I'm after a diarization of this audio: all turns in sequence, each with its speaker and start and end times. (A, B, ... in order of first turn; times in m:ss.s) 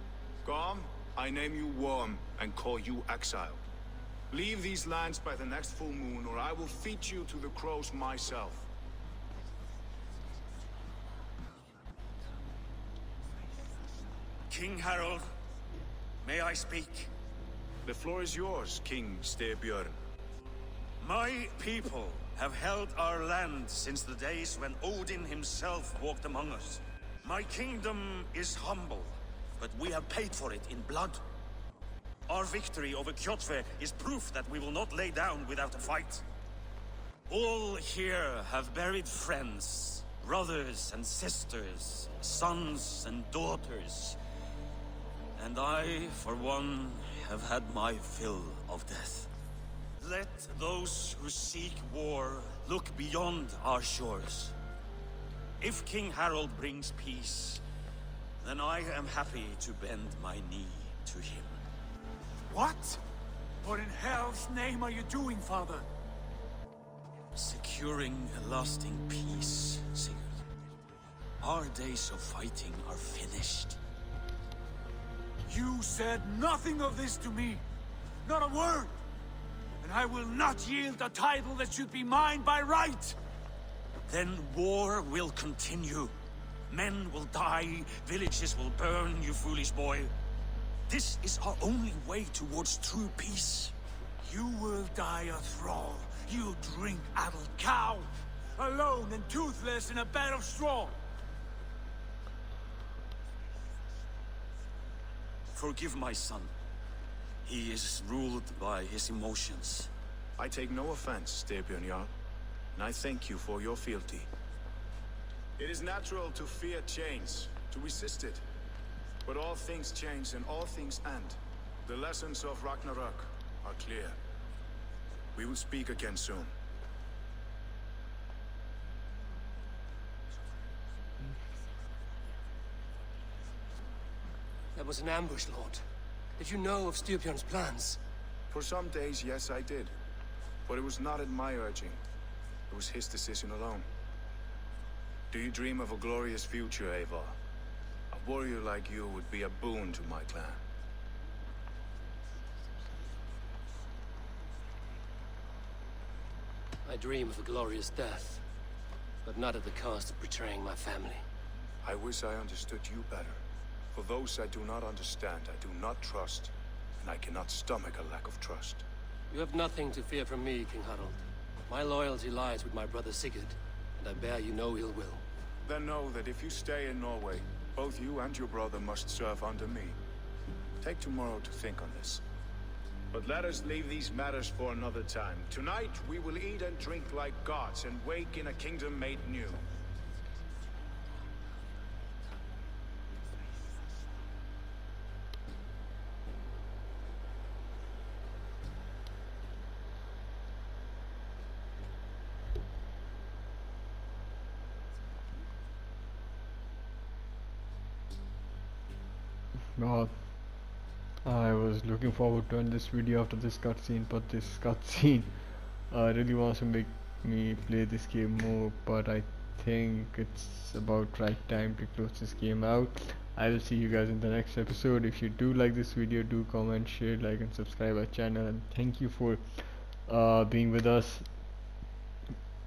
0:00.4-0:03.6 A
0:04.3-0:08.7 A
0:14.5-0:15.3 B
0:16.2-0:17.1 B
0:17.8-0:20.0 A
0:21.0-0:31.2 B
0:32.3-0:36.2 B
0:37.3-0:44.2 B
0:45.4-0:49.3 B
0:50.0-0:54.5 B
0:55.6-0:57.6 B
0:58.4-1:01.6 B
1:02.5-1:03.0 C
1:03.6-1:05.8 C
1:07.3-1:10.4 B
1:11.4-1:13.8 B
1:15.4-1:17.6 C
1:18.2-1:18.9 C
1:19.8-1:23.2 C
1:24.1-1:26.1 B
1:26.7-1:30.1 B
1:30.9-1:33.7 B
1:34.2-1:40.9 C
1:45.5-1:46.5 B
1:47.4-1:49.9 B
1:50.4-1:52.1 A
1:52.7-1:54.3 A
1:55.6-1:58.4 A
1:59.2-2:04.2 A
2:05.4-2:06.5 A
2:14.7-2:15.8 D
2:16.4-2:18.0 D
2:18.5-2:19.9 A
2:20.7-2:22.0 A
2:22.7-2:23.9 A
2:25.3-2:27.3 A
2:28.1-2:30.6 A
2:36.8-2:38.4 D
2:39.2-2:41.2 D
2:41.8-2:43.4 A
2:43.9-2:48.8 A
2:49.3-2:55.2 D
2:55.7-3:00.0 A
3:00.8-3:02.2 A
3:03.1-3:09.6 A
3:29.8-3:51.4 E